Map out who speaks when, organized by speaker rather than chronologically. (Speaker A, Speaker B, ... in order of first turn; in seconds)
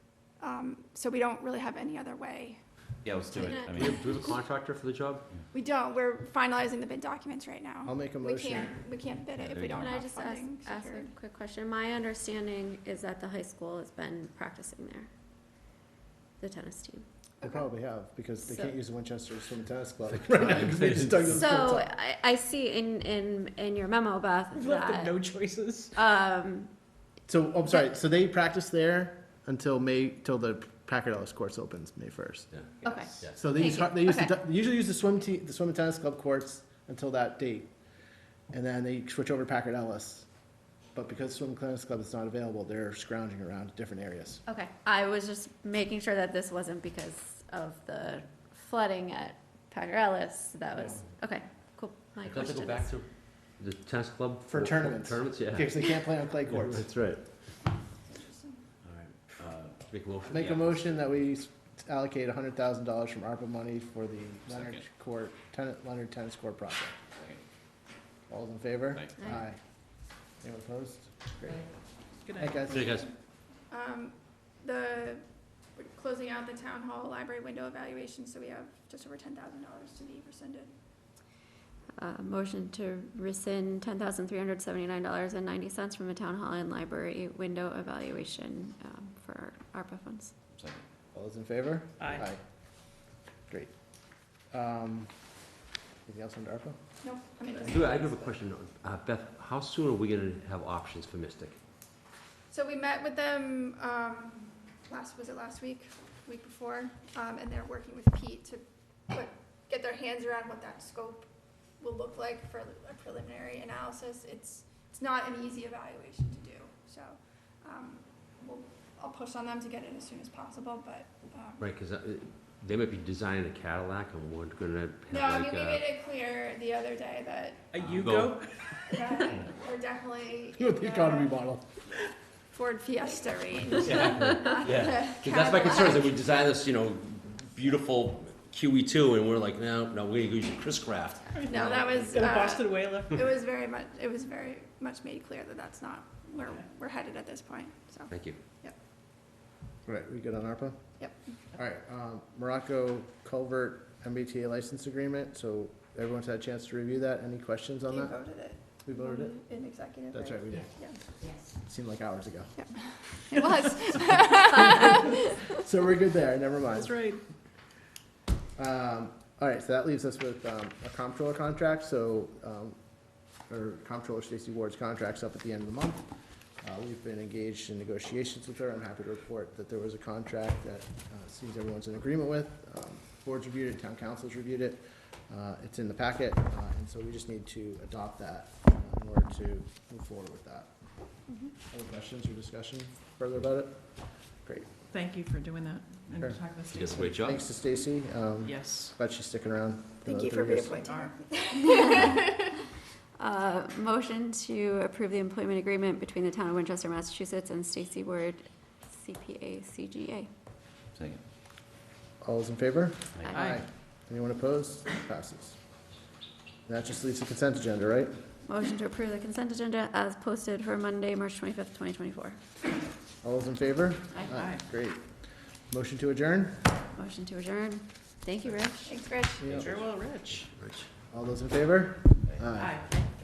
Speaker A: 0.4-2.6, 5.5-11.1, 58.0-58.6, 73.7-80.7, 97.0-98.3, 102.5-111.3, 111.8-121.6, 125.1-127.7, 128.9-131.3, 132.5-136.1, 141.5-148.7, 157.9-160.9, 162.6-165.1, 200.0-202.2, 228.8-229.4
Speaker B: 3.0-4.2, 9.4-9.9, 58.9-59.8, 64.5-64.8, 67.2-67.4, 90.5-90.8, 210.9-211.2, 213.1-213.4
Speaker C: 3.3-4.2, 9.8-15.1, 16.4-17.1, 18.4-18.7, 21.3-25.2, 25.9-26.7, 32.8-34.3, 44.5-52.9, 82.0-90.3, 201.8-202.3, 203.2-210.3, 213.2-213.6, 218.4-222.4, 226.9-229.0
Speaker D: 3.7-5.2, 20.1-21.3, 52.3-55.9, 56.5-57.2, 59.3-60.8, 72.7-73.1, 97.7-101.5, 121.6-125.8, 127.8-128.4, 133.8-142.1, 148.1-148.4, 196.7-197.4, 229.4-229.8, 230.3-230.8
Speaker E: 7.8-8.7, 17.4-21.9, 27.3-32.5, 33.3-37.7, 38.5-40.2, 40.9-44.4, 54.5-56.9, 60.3-67.0, 68.3-69.6, 70.4-71.7, 72.4-72.9, 91.1-92.4, 94.5-95.1, 96.0-96.8, 130.6-131.6, 149.8-150.8, 151.5-158.2, 158.8-159.5, 160.1-160.8, 161.5-162.5, 165.5-167.0, 168.6-172.8, 173.5-176.0, 176.6-190.7, 191.7-193.8, 197.2-200.8, 212.2-215.6, 216.7-218.1, 223.2-225.0, 225.7-226.7, 229.4-229.7, 231.1-232.8
Speaker F: 24.5-25.9, 32.8-33.2, 92.0-92.2, 127.7-128.5, 141.3-143.2, 166.7-167.2, 194.9-197.2, 198.4-198.9, 200.8-201.1, 213.3-213.6, 224.3-224.6, 229.6-230.5, 232.6-232.8